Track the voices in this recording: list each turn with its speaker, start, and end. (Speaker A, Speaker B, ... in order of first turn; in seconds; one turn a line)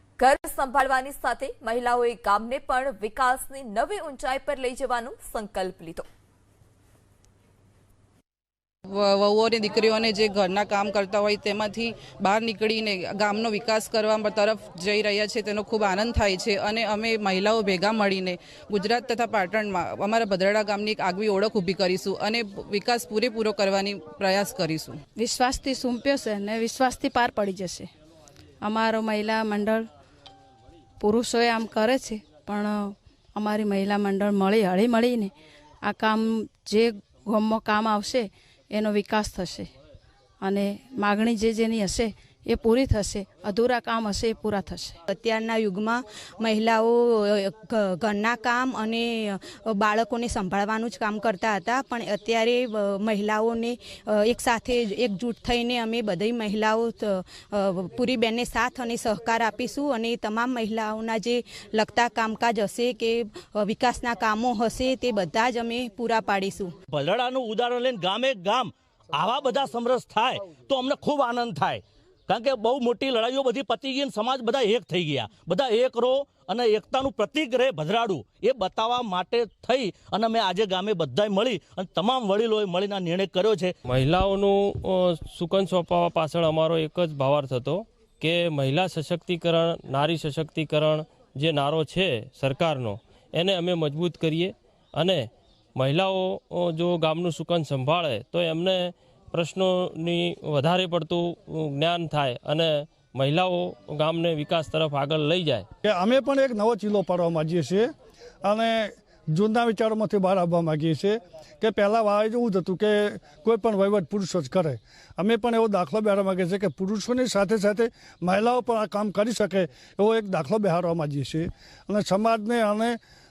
Speaker A: 0.2-6.0
Speaker B: 8.9-25.0
Speaker C: 25.2-27.9
Speaker C: 28.6-29.9
Speaker C: 31.0-35.3
Speaker C: 35.8-39.7
Speaker C: 40.4-45.0
Speaker D: 45.1-66.7
Speaker E: 67.0-83.7
Speaker F: 83.9-105.7
Speaker G: 105.8-107.9
Speaker G: 108.4-123.0